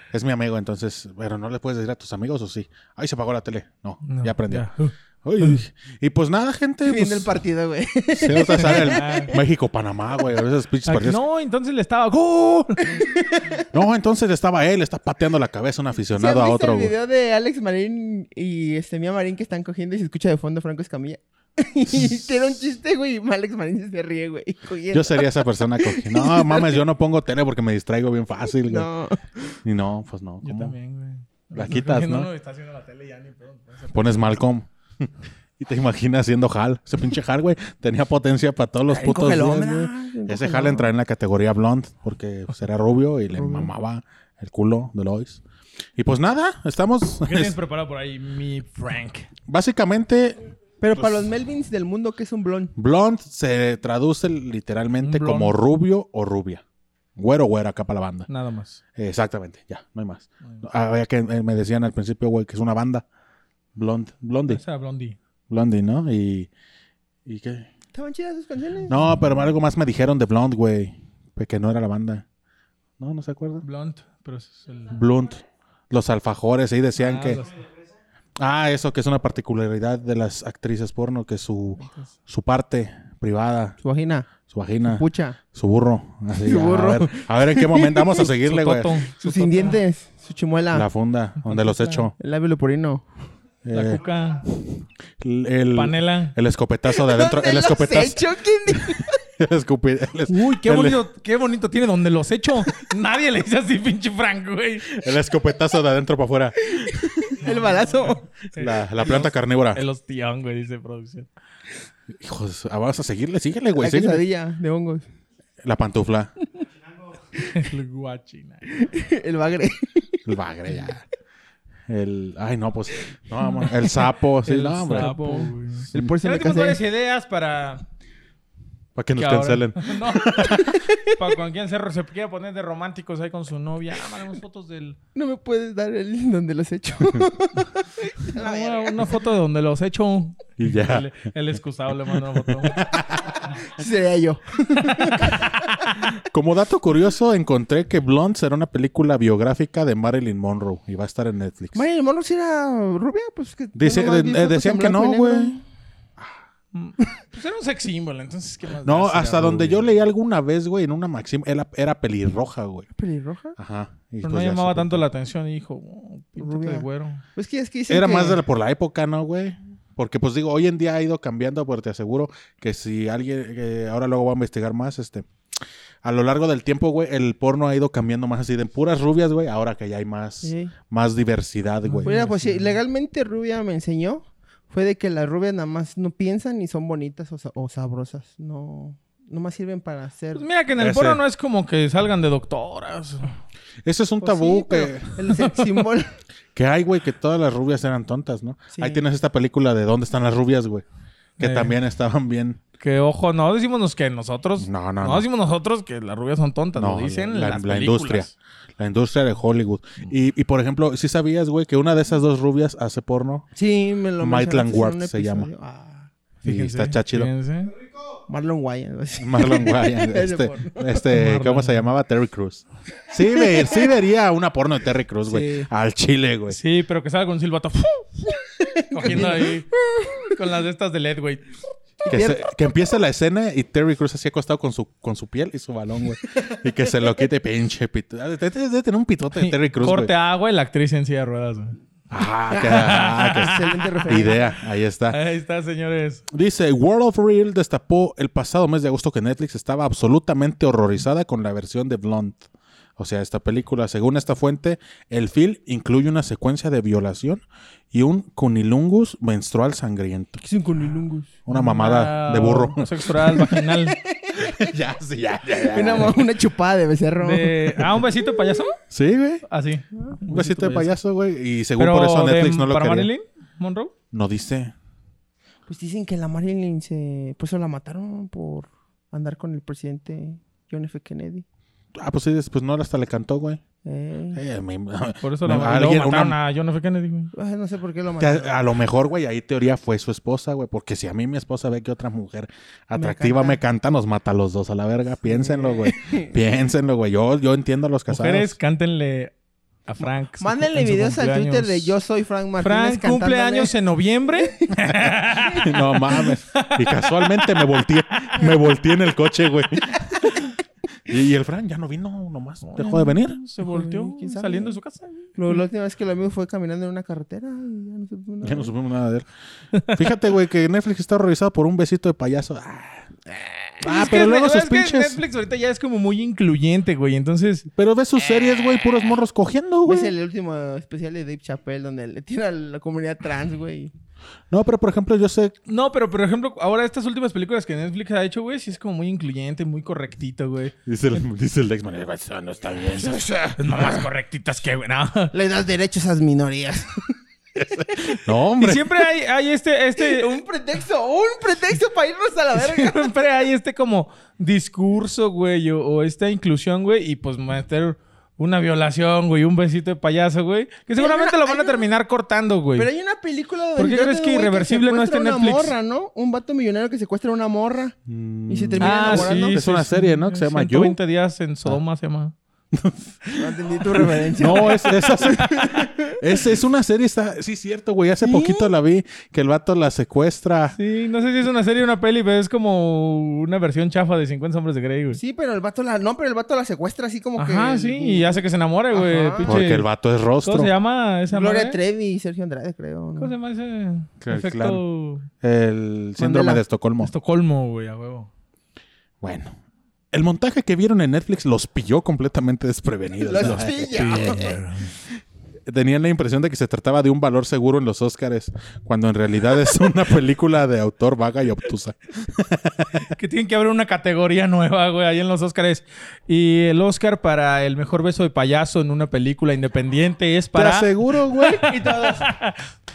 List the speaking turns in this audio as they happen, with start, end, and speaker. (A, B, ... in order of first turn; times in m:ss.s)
0:00.1-0:04.7 A
0:04.0-0:05.6 B
0:05.2-0:07.3 A
0:06.8-0:09.4 C
0:08.1-0:11.2 A
0:08.6-0:09.3 B
0:10.8-0:13.0 B
0:12.9-0:13.6 C
0:13.7-0:16.9 A
0:16.1-0:26.8 C
0:24.9-0:28.9 A
0:28.6-0:29.6 C
0:29.6-0:30.8 A
0:30.4-0:34.3 B
0:31.5-0:32.3 A
0:33.9-0:45.4 A
0:38.9-0:40.9 C
0:43.3-0:43.7 C
0:46.0-0:47.6 A
0:47.2-0:49.3 B
0:49.5-0:51.3 A
0:50.8-0:52.7 C
0:52.8-0:56.6 A
0:55.0-0:55.6 B
0:57.2-0:58.3 A
0:58.3-0:58.8 B
0:59.0-1:03.0 A
1:03.7-1:04.6 A
1:04.5-1:05.2 B
1:05.5-1:06.5 A
1:07.2-1:07.7 A
1:07.9-1:09.1 C
1:08.9-1:12.2 A
1:13.0-1:13.6 A
1:13.6-1:15.0 B
1:14.9-1:17.4 A
1:17.0-1:17.6 B
1:18.4-1:23.8 A
1:23.8-1:24.3 C
1:24.5-1:29.0 A
1:24.8-1:25.4 C
1:26.4-1:28.2 C
1:28.2-1:29.8 B
1:29.2-1:30.9 C
1:30.7-1:32.1 A
1:31.4-1:32.1 B
1:32.2-1:33.0 C
1:33.6-1:41.0 A
1:33.7-1:34.4 B
1:35.7-1:36.3 B
1:36.9-1:39.2 C
1:40.3-1:44.9 B
1:44.9-1:47.4 A
1:46.8-1:48.2 C
1:47.4-1:51.3 B
1:48.6-1:49.8 A
1:52.2-1:54.2 A
1:53.8-1:55.0 C
1:55.6-1:56.3 A
1:57.4-1:58.6 B
1:58.7-2:00.2 C
2:00.3-2:01.0 A
2:01.9-2:05.1 A
2:04.4-2:07.8 B
2:04.9-2:06.8 C
2:09.0-2:10.8 A
2:09.2-2:15.0 B
2:10.4-2:11.2 C
2:15.1-2:19.2 C
2:18.3-2:22.9 B
2:20.6-2:21.1 A
2:22.1-2:23.4 A
2:23.3-2:26.1 C
2:26.2-2:31.8 A
2:31.7-2:35.6 C
2:33.7-2:35.6 A
2:36.7-2:39.9 B
2:38.8-2:42.9 A
2:42.9-2:43.6 C
2:43.6-2:45.0 A
2:44.2-2:47.2 B
2:46.4-2:48.4 C
2:47.9-2:55.3 A
2:56.0-3:02.1 A
3:00.4-3:00.7 C
3:01.8-3:02.7 B
3:02.0-3:10.4 C
3:10.3-3:13.3 B
3:10.8-3:11.2 A
3:13.8-3:15.1 A
3:14.2-3:16.1 C
3:15.3-3:15.8 B
3:16.5-3:20.8 A
3:18.7-3:19.0 C
3:21.4-3:21.7 B
3:21.4-3:22.6 A
3:22.8-3:28.3 B
3:24.6-3:25.3 A
3:26.8-3:33.5 A
3:33.5-3:36.1 C
3:34.2-3:35.5 A
3:36.4-3:37.7 B
3:36.4-3:37.3 A
3:38.3-3:40.9 C
3:39.2-3:46.6 A
3:41.0-3:41.9 B
3:43.2-3:43.9 C
3:45.3-3:45.7 C
3:46.5-3:48.1 B
3:48.3-3:50.4 C
3:48.9-3:51.5 B
3:52.0-3:52.5 C
3:52.1-4:00.1 A
3:59.4-4:01.8 B
4:02.1-4:05.2 A
4:02.5-4:04.6 C
4:02.5-4:04.4 B
4:05.1-4:06.2 B
4:06.3-4:12.4 A
4:13.0-4:20.4 A
4:20.4-4:21.3 C
4:21.4-4:23.1 A
4:21.5-4:24.0 B
4:23.5-4:24.7 C
4:24.4-4:26.2 A
4:25.5-4:28.6 C
4:27.2-4:28.8 B
4:28.9-4:29.4 A
4:29.4-4:30.9 B
4:29.9-4:30.2 C
4:30.2-4:33.1 A
4:31.8-4:33.9 B
4:34.1-4:34.7 A
4:35.7-4:41.4 C
4:42.0-4:43.6 A
4:43.8-4:44.4 C
4:44.3-4:46.4 A
4:45.2-4:47.3 B
4:47.3-4:48.6 C
4:48.2-4:58.6 A
4:53.0-4:53.6 C
4:55.2-4:56.3 C
4:58.1-4:59.3 B
4:59.9-5:01.9 B
5:00.4-5:03.7 C
5:02.6-5:08.4 B
5:04.4-5:04.8 C
5:05.4-5:10.4 A
5:11.1-5:13.4 A
5:12.6-5:15.3 B
5:13.6-5:14.8 C
5:15.4-5:18.7 C
5:18.4-5:19.3 A
5:19.9-5:23.1 A
5:23.3-5:23.7 C
5:23.8-5:25.2 A
5:23.8-5:27.7 B
5:27.8-5:30.1 A
5:29.8-5:33.9 C
5:34.5-5:35.5 A
5:35.7-5:40.7 B
5:40.8-5:43.9 A
5:43.6-5:45.3 B
5:45.3-5:47.1 C
5:47.7-5:48.1 C
5:47.8-5:48.9 A
5:48.6-5:50.4 B
5:50.0-5:53.1 C
5:52.5-6:02.9 B
6:01.0-6:01.8 C
6:02.7-6:08.0 C
6:03.8-6:05.7 B
6:08.0-6:11.0 A
6:08.5-6:09.6 C
6:08.8-6:12.3 B
6:12.7-6:13.4 A
6:13.4-6:16.2 C
6:14.4-6:20.8 A
6:14.5-6:14.8 B
6:18.2-6:18.7 C
6:20.8-6:25.2 B
6:25.1-6:29.6 C
6:27.4-6:29.9 B
6:29.4-6:30.7 A
6:30.4-6:31.8 B
6:31.3-6:33.3 C
6:33.2-6:35.3 B
6:34.2-6:34.8 A
6:35.4-6:37.1 A
6:36.2-6:36.6 C
6:37.0-6:38.3 B
6:39.2-6:39.6 A
6:40.1-6:44.6 A
6:43.2-6:44.6 C
6:43.9-6:44.9 B
6:45.7-6:53.0 A
6:53.0-7:02.6 B
7:00.5-7:01.7 A
7:01.6-7:02.3 C